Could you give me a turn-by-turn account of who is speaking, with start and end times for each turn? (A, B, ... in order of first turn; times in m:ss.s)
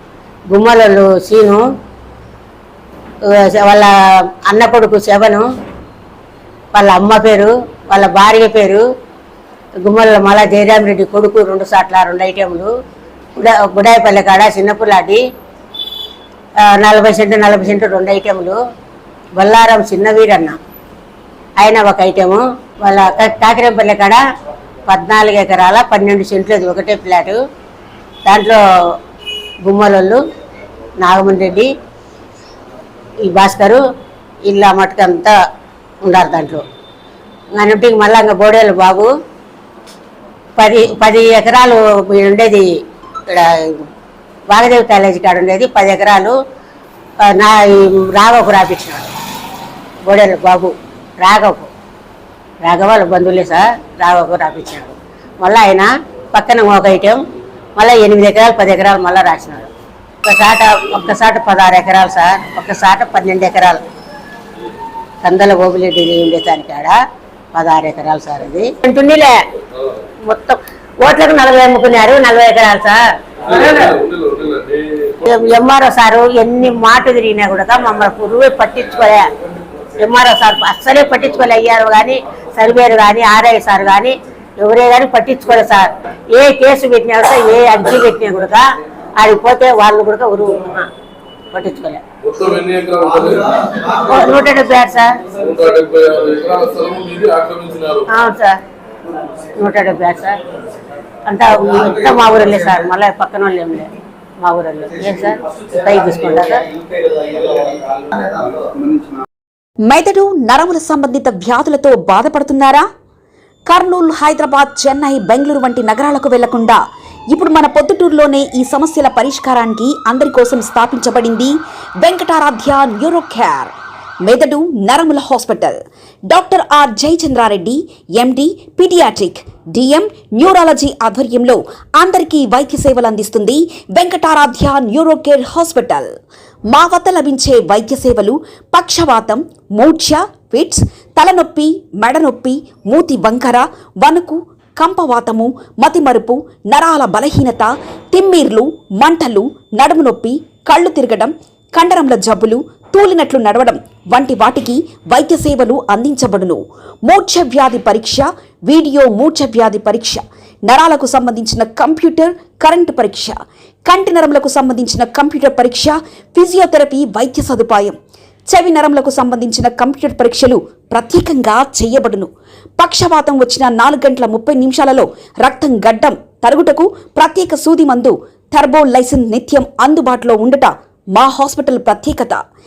0:00.5-0:01.7 A
0:03.2-0:05.5 A
0:06.7-0:08.9 A
0:09.8-0:12.7 A
0:13.4-0:15.2 A
0:16.6-0:18.6 A
0:19.4-0:20.6 A
0:21.6-0:24.2 A
0:24.9-0:27.4 A
0:28.3-0:28.6 A
0:29.6-0:30.2 A
0:31.0-0:31.7 A
0:33.2-0:33.8 A
0:34.4-0:35.4 A
0:36.0-0:36.6 A
0:37.6-0:39.1 A
0:40.6-0:42.7 A
0:43.3-0:43.8 A
0:44.5-0:46.4 A
0:47.2-0:49.1 A
0:50.0-0:51.7 A
0:52.6-0:57.2 A
0:57.8-0:59.7 A
1:00.2-1:03.8 A
1:05.2-1:07.0 A
1:07.5-1:09.4 A
1:09.7-1:10.0 B
1:10.2-1:14.0 A
1:13.5-1:15.2 B
1:15.2-1:19.3 A
1:20.0-1:28.7 A
1:29.2-1:30.9 A
1:31.5-1:32.0 A
1:32.2-1:34.0 B
1:33.9-1:35.2 A
1:35.4-1:38.1 B
1:38.1-1:38.6 A
1:39.5-1:40.4 A
1:41.3-1:46.6 A
1:49.9-1:52.9 C
1:53.7-1:56.8 C
1:57.3-2:03.7 C
2:04.2-2:05.8 C
2:06.3-2:16.1 C
2:16.7-2:48.0 C
2:48.5-3:02.4 C